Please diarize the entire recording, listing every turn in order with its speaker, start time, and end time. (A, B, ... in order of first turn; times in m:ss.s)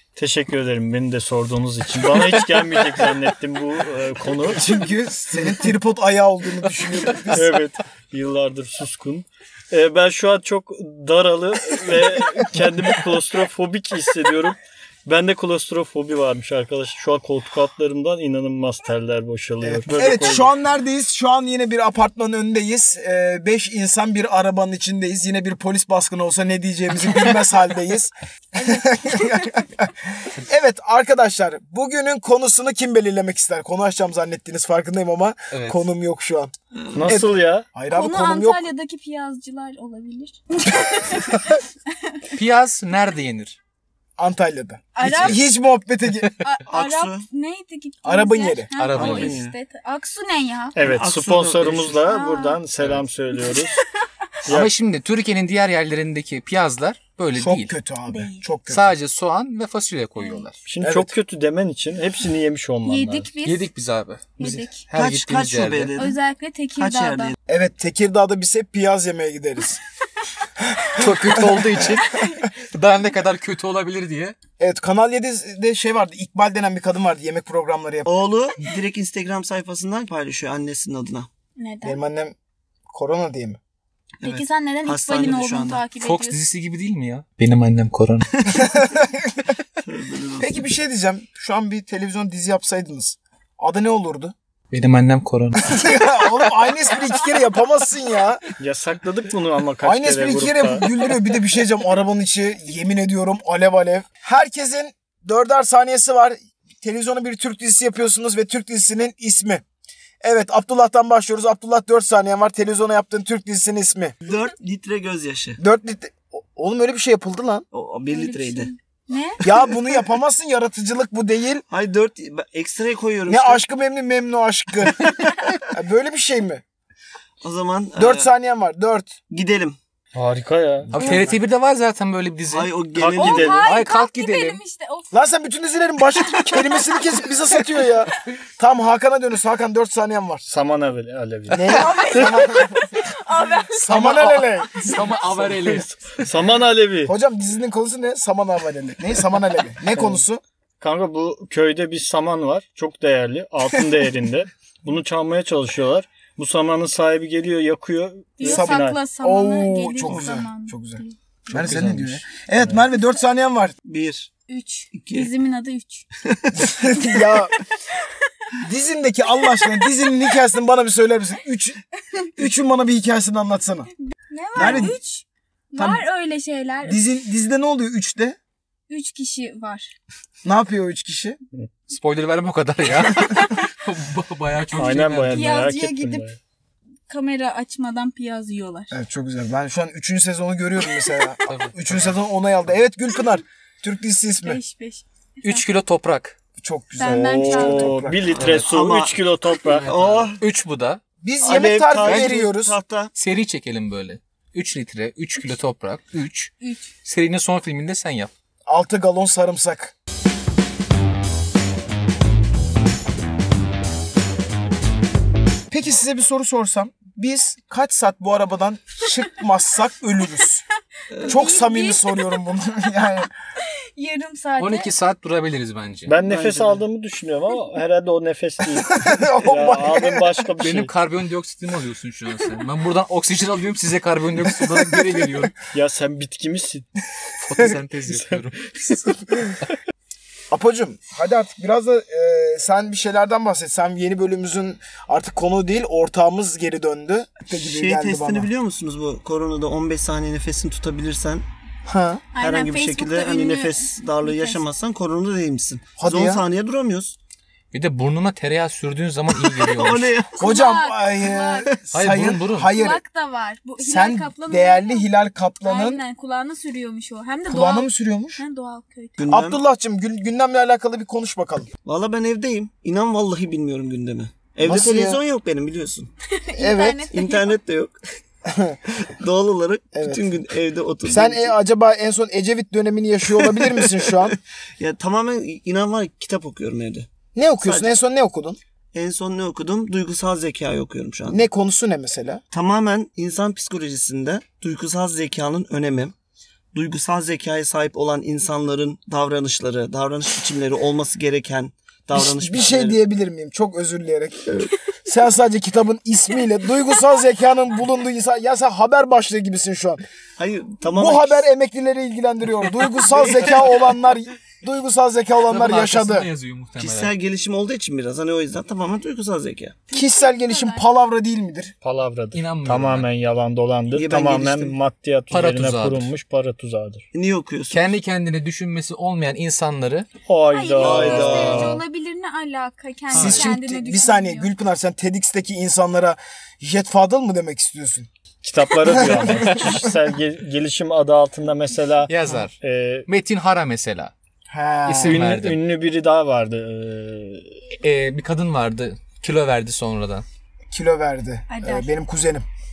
0:00.2-0:04.7 A
0:04.5-0:07.5 B
0:07.3-0:20.5 A
0:19.6-0:36.5 B
0:28.5-0:29.6 C
0:35.5-0:35.8 D
0:36.7-0:37.2 E
0:36.9-0:37.7 A
0:37.1-0:38.6 B
0:37.9-0:41.3 C
0:42.3-0:43.6 D
0:44.2-0:46.3 B
0:45.0-0:45.4 C
0:45.0-0:45.4 D
0:46.4-0:50.8 C
0:46.7-0:47.2 E
0:48.0-0:48.7 B
0:48.8-0:49.4 D
0:48.9-0:49.5 E
0:50.7-0:53.7 A
0:50.8-0:52.1 E
0:52.1-0:52.6 C
0:52.8-0:53.0 D
0:54.4-0:57.7 D
0:54.4-0:54.7 A
0:57.3-0:58.9 B
0:58.1-0:58.4 C
0:58.7-1:00.6 D
1:00.2-1:00.5 C
1:00.6-1:03.3 A
1:00.8-1:01.1 B
1:02.8-1:03.6 C
1:03.4-1:06.0 D
1:04.4-1:04.8 C
1:04.9-1:06.1 E
1:06.0-1:07.3 C
1:06.8-1:07.4 E
1:07.5-1:09.8 B
1:10.8-1:11.8 B
1:10.9-1:14.3 D
1:12.1-1:12.4 C
1:14.6-1:18.1 B
1:18.0-1:21.3 E
1:21.6-1:22.0 C
1:21.8-1:22.3 B
1:22.9-1:23.6 B
1:24.2-1:25.8 E
1:24.2-1:26.4 C
1:26.0-1:28.3 D
1:28.5-1:29.5 B
1:29.8-1:30.6 E
1:30.4-1:34.3 B
1:34.7-1:35.7 D
1:35.6-1:38.4 B
1:38.6-1:40.8 A
1:39.8-1:49.6 B
1:50.2-1:54.1 B
1:54.2-1:55.6 E
1:55.6-1:57.6 B
1:57.7-1:58.7 E
1:58.1-1:59.4 C
1:59.4-2:01.6 B
2:01.7-2:03.6 E
2:03.3-2:05.1 B
2:05.7-2:06.6 B
2:07.4-2:08.3 E
2:08.0-2:09.1 B
2:09.3-2:09.8 E
2:10.1-2:10.9 A
2:10.9-2:12.8 D
2:10.9-2:11.4 B
2:12.5-2:13.6 E
2:13.0-2:13.7 A
2:13.2-2:15.1 C
2:13.6-2:14.6 D
2:15.1-2:20.4 B
2:16.2-2:17.2 C
2:20.5-2:21.8 A
2:21.5-2:23.0 B
2:21.7-2:24.5 C
2:23.8-2:24.9 B
2:23.9-2:26.2 D
2:25.3-2:25.6 A
2:26.2-2:27.1 A
2:27.0-2:30.4 B
2:30.8-2:39.0 A
2:38.4-2:41.2 C
2:38.4-2:43.7 B
2:41.5-2:42.2 D
2:43.8-2:44.3 E
2:44.5-2:46.1 C
2:44.9-2:45.3 E
2:46.2-2:46.7 E
2:46.5-2:47.5 B
2:48.6-2:51.8 B
2:49.6-2:49.8 C
2:52.4-2:53.9 B
2:54.0-2:57.0 C
2:54.5-2:55.0 B
2:55.8-2:56.0 B
2:56.8-2:58.4 B
2:58.9-2:59.9 C
3:00.4-3:01.4 B
3:01.9-3:05.6 D
3:04.8-3:06.4 A
3:05.3-3:06.3 C
3:07.1-3:09.0 C
3:08.9-3:14.6 B
3:11.4-3:12.1 D
3:14.4-3:15.6 C
3:15.4-3:16.4 D
3:16.6-3:18.3 B
3:17.0-3:18.0 C
3:17.0-3:20.0 A
3:18.3-3:18.7 D
3:18.4-3:19.2 E
3:19.6-3:21.0 D
3:19.8-3:20.4 E
3:21.2-3:22.8 B
3:21.4-3:23.1 E
3:22.0-3:22.4 D
3:23.2-3:26.5 D
3:26.6-3:26.9 C
3:27.0-3:28.3 D
3:28.7-3:29.9 B
3:35.7-3:40.6 B
3:41.2-3:42.4 C
3:41.2-3:43.3 B
3:43.9-3:44.9 C
3:44.6-3:46.1 D
3:46.1-3:50.9 A
3:46.2-3:46.8 E
3:48.8-3:50.3 B
3:50.6-3:55.6 D
3:54.8-3:55.2 B
3:55.7-3:56.9 A
3:57.4-3:59.1 D
4:00.5-4:08.5 B
4:07.5-4:11.4 E
4:11.8-4:12.2 B
4:12.3-4:14.6 C
4:12.4-4:17.2 E
4:16.0-4:16.4 B
4:17.7-4:20.2 D
4:19.4-4:20.3 E
4:20.4-4:21.7 C
4:20.4-4:23.0 B
4:21.9-4:22.7 D
4:22.6-4:25.1 C
4:23.8-4:26.0 B
4:25.6-4:29.2 C
4:27.5-4:28.4 B
4:29.2-4:29.6 E
4:29.3-4:31.7 B
4:31.8-4:36.1 E
4:34.6-4:35.2 B
4:36.3-4:37.6 C
4:36.6-4:37.0 B
4:37.1-4:38.0 E
4:38.4-4:38.8 B
4:39.0-4:41.5 E
4:39.9-4:40.2 B
4:41.1-4:44.4 B
4:43.4-4:47.1 E
4:47.3-4:48.6 B
4:47.6-4:47.9 E
4:48.9-4:51.4 E
4:51.3-4:52.4 B
4:52.5-4:56.1 E
4:56.7-5:03.0 E
5:02.1-5:04.5 B
5:04.5-5:04.7 E
5:05.0-5:10.0 B
5:10.4-5:11.5 E
5:10.9-5:16.3 B
5:13.1-5:13.6 E
5:15.5-5:17.1 D
5:16.8-5:19.8 E
5:19.9-5:20.8 C
5:19.9-5:21.7 B
5:21.8-5:27.0 A
5:22.3-5:23.1 D
5:23.9-5:24.8 E
5:25.3-5:26.1 D
5:27.1-5:27.8 E
5:27.7-5:30.1 D
5:30.2-5:31.8 A
5:30.5-5:34.5 C
5:30.8-5:31.8 E
5:33.1-5:33.5 D
5:33.1-5:38.1 B
5:38.4-5:43.1 A
5:38.8-5:39.3 B
5:42.1-5:44.1 D
5:44.5-5:45.3 B
5:44.8-5:45.6 D
5:45.0-5:47.6 A
5:47.8-5:50.2 D
5:50.7-5:52.4 B
5:51.5-5:51.9 C